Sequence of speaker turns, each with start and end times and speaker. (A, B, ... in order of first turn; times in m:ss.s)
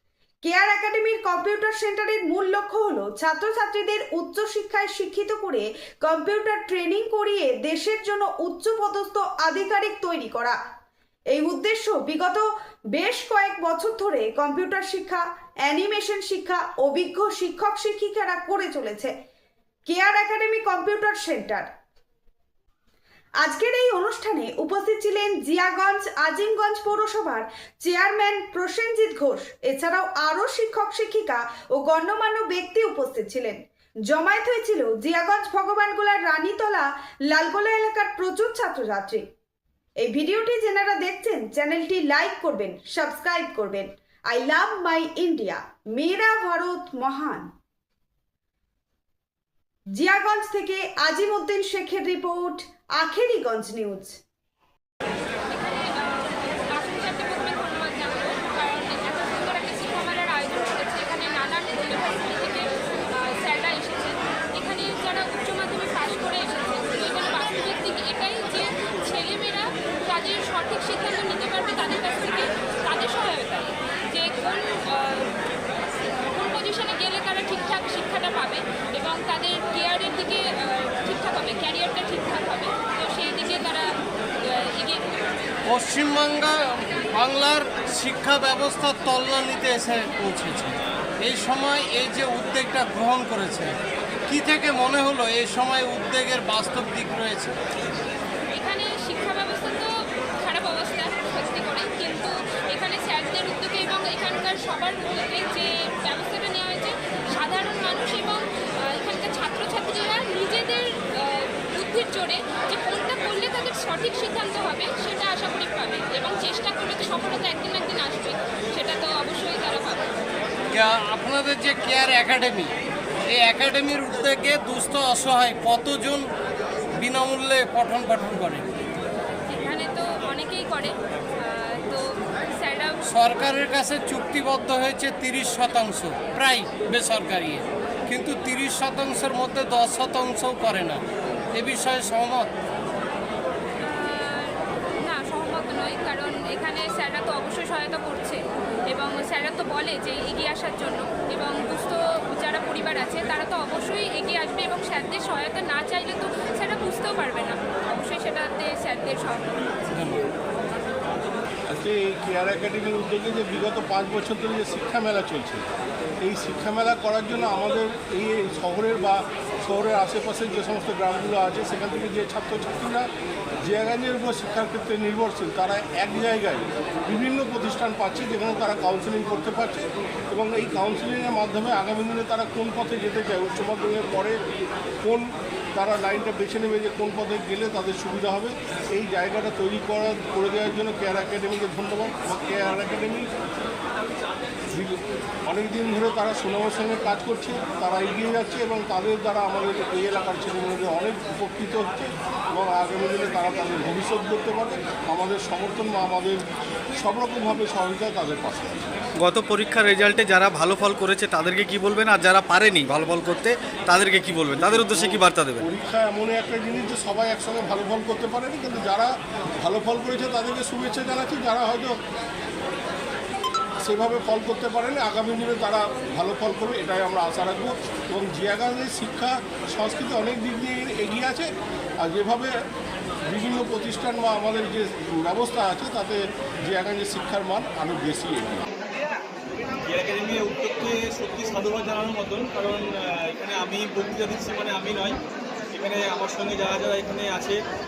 0:00.4-0:10.6 A
0:11.3-0:19.1 A
0:19.8-0:21.7 A
0:23.4-0:39.2 A
0:40.0-0:47.5 A
0:50.0-0:54.2 A
0:55.5-1:15.4 B
1:16.3-1:23.9 B
1:24.4-1:25.1 B
1:25.7-1:33.7 C
1:34.3-1:37.5 C
1:38.5-1:39.9 B
1:40.4-2:00.0 B
2:00.7-2:02.7 C
2:03.3-2:06.2 C
2:07.0-2:08.6 C
2:09.5-2:13.0 B
2:13.1-2:21.0 C
2:21.6-2:22.5 C
2:23.8-2:28.4 B
2:28.9-2:40.1 B
2:39.9-2:40.2 C
2:41.7-2:45.6 D
2:46.2-2:53.1 D
2:53.6-3:04.4 D
3:05.0-3:13.3 D
3:14.7-3:26.4 D
3:27.0-3:28.9 D
3:29.2-3:35.6 E
3:34.5-3:42.0 D
3:43.8-3:51.5 D
3:52.0-3:52.5 D
3:53.3-3:58.6 D
3:59.8-4:05.2 F
4:05.7-4:07.6 F